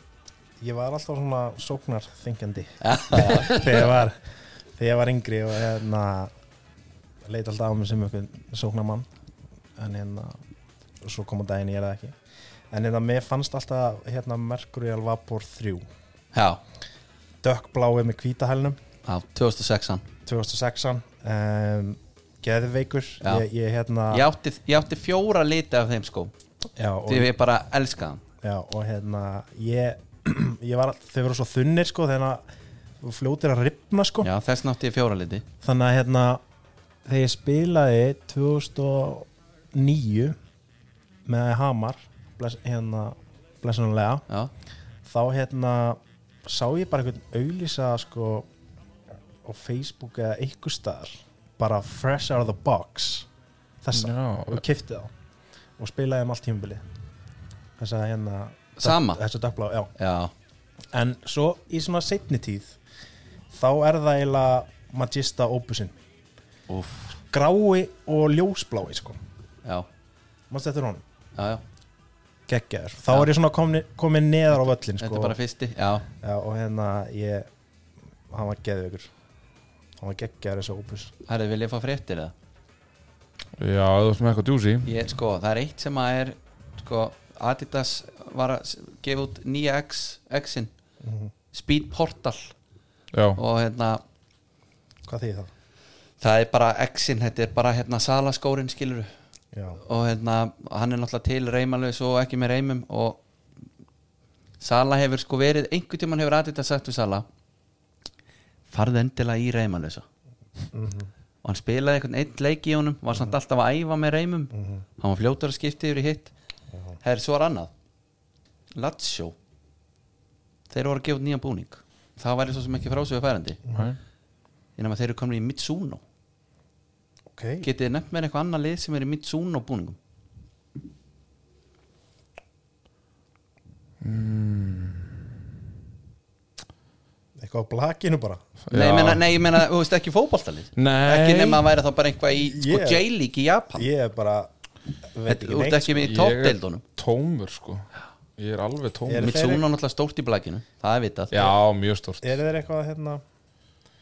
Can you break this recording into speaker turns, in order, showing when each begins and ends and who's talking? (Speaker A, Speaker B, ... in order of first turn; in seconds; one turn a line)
Speaker A: 0.6-4.2
Speaker B: 2.8-3.9
Speaker A: 4.8-6.3
Speaker A: 7.2-9.1
Speaker A: 9.8-10.4
Speaker A: 11.0-12.2
Speaker A: 12.7-15.8
Speaker B: 16.3-16.6
Speaker A: 17.4-18.8
Speaker B: 19.1-20.1
Speaker A: 20.3-24.3
Speaker B: 24.1-26.3
Speaker A: 26.8-27.3
Speaker B: 27.1-28.2
Speaker A: 28.4-32.4
Speaker A: 33.0-34.3
Speaker B: 34.2-35.5
Speaker A: 35.6-36.4
Speaker A: 37.1-40.4
Speaker A: 41.3-44.2
Speaker A: 45.0-48.5
Speaker A: 49.4-53.3
Speaker A: 53.8-55.1
Speaker C: 53.9-54.6
Speaker A: 55.8-56.8
Speaker A: 57.8-59.9
Speaker B: 58.8-59.2
Speaker B: 60.0-60.3
Speaker A: 60.9-62.8
Speaker A: 63.5-66.0
Speaker B: 66.7-67.1
Speaker A: 67.3-69.2
Speaker A: 70.5-71.0
Speaker B: 71.4-71.6
Speaker A: 72.5-75.4
Speaker B: 75.0-76.1
Speaker A: 76.2-77.5
Speaker A: 78.3-79.1
Speaker A: 80.0-81.1
Speaker B: 81.3-82.3
Speaker C: 83.6-84.9
Speaker B: 84.9-90.7
Speaker A: 91.0-91.3
Speaker B: 91.5-92.5
Speaker C: 93.1-93.4
Speaker B: 93.4-94.0
Speaker A: 95.1-95.5
Speaker B: 96.2-99.1
Speaker A: 99.5-99.8
Speaker B: 99.8-103.2
Speaker B: 104.6-107.3
Speaker B: 108.7-110.0
Speaker A: 110.7-111.1
Speaker B: 111.4-116.3
Speaker A: 114.5-114.8
Speaker B: 117.0-117.7
Speaker B: 118.8-119.3
Speaker B: 120.7-123.6
Speaker A: 123.7-124.0
Speaker B: 124.8-126.0
Speaker A: 127.3-127.7
Speaker B: 127.6-130.0
Speaker C: 134.0-135.1
Speaker A: 137.4-138.4
Speaker C: 138.7-139.4
Speaker B: 138.7-143.9
Speaker C: 140.8-141.7
Speaker A: 142.4-143.0
Speaker A: 143.8-144.5
Speaker A: 145.1-146.1
Speaker B: 145.3-146.8
Speaker C: 146.0-149.4
Speaker A: 149.1-149.7
Speaker B: 149.2-151.5
Speaker C: 151.3-152.3
Speaker A: 152.2-153.2